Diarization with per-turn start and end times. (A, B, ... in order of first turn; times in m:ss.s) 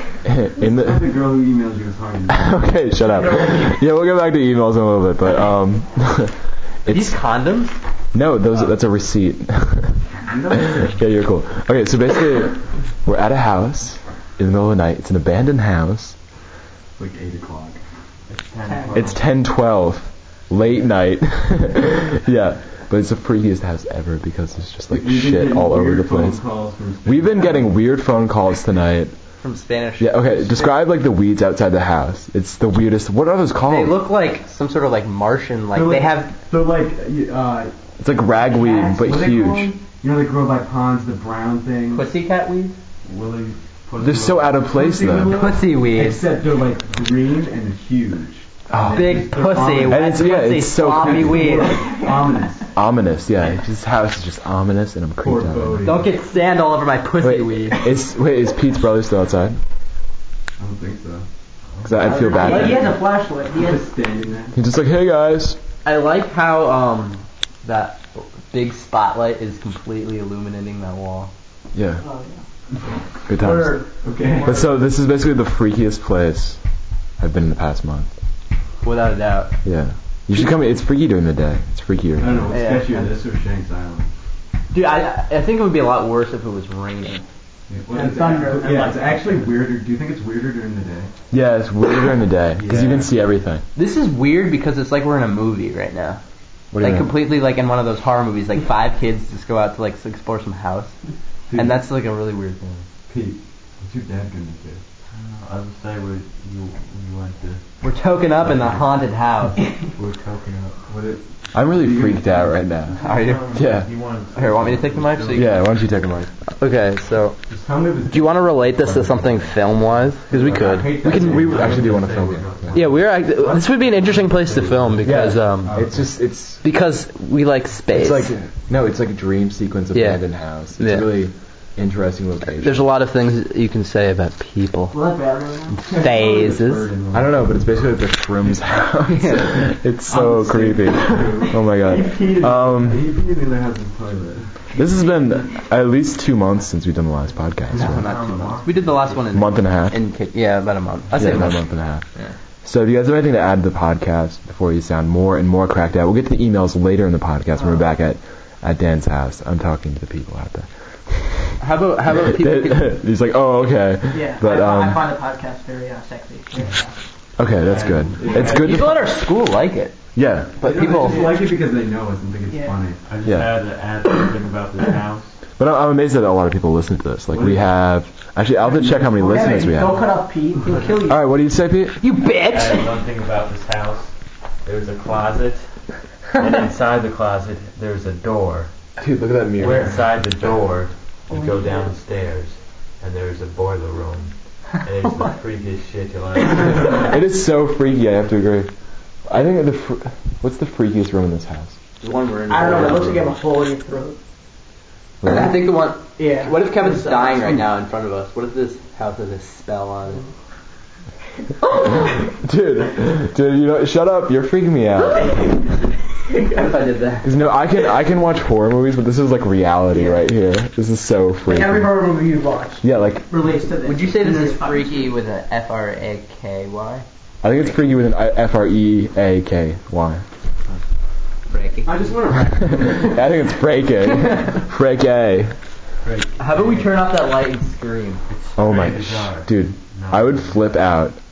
0:00.2-0:01.1 A
0:00.6-0:02.6 B
0:02.3-0:07.2 A
0:06.9-0:07.8 C
0:08.1-0:10.0 A
0:10.3-0:11.0 B
0:10.5-0:16.2 A
0:17.0-0:17.8 B
0:18.3-0:19.2 D
0:18.7-0:19.1 E
0:18.9-0:26.4 A
0:24.9-0:27.8 B
0:27.0-0:29.2 A
0:29.4-0:30.8 C
0:30.0-0:34.0 A
0:33.7-0:36.3 C
0:35.7-0:37.7 B
0:38.0-0:39.7 A
0:38.7-0:42.1 B
0:41.9-0:42.8 C
0:43.0-0:44.6 D
0:44.0-0:45.5 A
0:44.7-0:50.3 B
0:45.3-0:46.2 C
0:48.7-0:51.6 A
0:48.9-0:51.8 C
0:50.8-0:52.7 B
0:51.8-0:52.4 E
0:52.8-0:56.0 A
0:55.2-0:56.2 B
0:55.8-0:57.8 C
0:57.2-0:59.6 A
1:00.6-1:01.3 B
1:01.8-1:02.9 A
1:02.0-1:03.9 E
1:02.1-1:04.6 B
1:04.6-1:05.6 A
1:05.8-1:11.3 C
1:11.7-1:12.0 A
1:12.0-1:12.4 E
1:13.3-1:13.9 A
1:13.3-1:14.6 E
1:13.9-1:14.7 B
1:14.4-1:16.6 A
1:17.2-1:18.1 A
1:18.8-1:19.6 C
1:19.6-1:22.5 A
1:22.2-1:24.1 B
1:22.5-1:23.1 C
1:24.7-1:27.2 C
1:27.7-1:31.1 B
1:27.9-1:29.4 E
1:31.3-1:33.6 A
1:32.6-1:33.1 B
1:33.8-1:36.2 C
1:36.7-1:37.1 A
1:36.8-1:40.9 C
1:41.5-1:41.8 B
1:41.5-1:42.8 C
1:43.1-1:44.8 B
1:45.1-1:47.6 D
1:47.8-1:49.6 C
1:50.0-1:50.8 D
1:50.9-1:52.6 B
1:51.5-1:53.0 A
1:52.9-1:55.6 D
1:53.0-1:53.4 C
1:53.5-1:53.9 A
1:54.4-1:55.6 C
1:55.3-1:56.3 A
1:56.6-1:57.4 C
1:57.5-1:58.5 B
1:58.1-2:01.3 C
2:00.3-2:02.1 B
2:01.0-2:02.7 A
2:01.0-2:02.8 D
2:02.7-2:05.7 C
2:02.8-2:06.1 B
2:05.0-2:06.6 A
2:06.6-2:08.3 C
2:07.9-2:12.9 A
2:09.9-2:10.2 C
2:10.8-2:11.2 C
2:12.5-2:15.0 C
2:14.9-2:16.3 E
2:15.7-2:17.7 B
2:16.0-2:16.9 C
2:17.1-2:23.1 A
2:19.0-2:19.7 C
2:20.1-2:24.6 B
2:24.8-2:28.1 A
2:27.7-2:31.6 C
2:27.8-2:29.4 D
2:29.3-2:30.0 A
2:31.1-2:32.0 A
2:31.2-2:31.4 B
2:32.6-2:41.5 A
2:41.6-2:43.0 C
2:42.1-2:45.0 A
2:44.1-2:46.9 E
2:47.4-2:49.1 A
2:47.6-2:48.8 D
2:48.1-2:48.9 B
2:48.4-2:50.0 C
2:50.2-2:50.5 A
2:50.6-2:51.4 C
2:50.6-2:53.0 B
2:53.1-2:55.4 D
2:53.2-2:53.5 A
2:55.6-3:00.1 A
2:57.3-2:57.6 B
2:58.6-2:59.7 B
2:59.2-3:01.3 E
3:01.0-3:02.0 A
3:02.0-3:02.9 E
3:02.4-3:04.1 D
3:04.6-3:05.7 D
3:06.3-3:08.7 D
3:09.0-3:10.0 A
3:09.6-3:17.2 D
3:11.3-3:11.7 E
3:15.0-3:15.3 C
3:16.9-3:18.7 A
3:19.3-3:21.8 A
3:22.0-3:23.2 C
3:22.5-3:24.2 E
3:25.2-3:25.6 A
3:25.3-3:30.2 C
3:25.3-3:25.6 E
3:26.2-3:27.7 E
3:31.8-3:35.4 A
3:35.1-3:35.7 E
3:36.2-3:36.6 E
3:36.5-3:37.3 C
3:37.2-3:42.0 A
3:39.9-3:40.2 E
3:41.5-3:45.2 E
3:42.8-3:43.5 A
3:43.8-3:47.0 C
3:47.4-3:50.2 A
3:51.5-3:52.2 C
3:51.8-3:53.1 B
3:52.6-3:55.5 A
3:56.0-3:56.9 B
3:56.4-3:58.2 C
3:58.3-4:00.4 D
3:58.6-4:01.2 A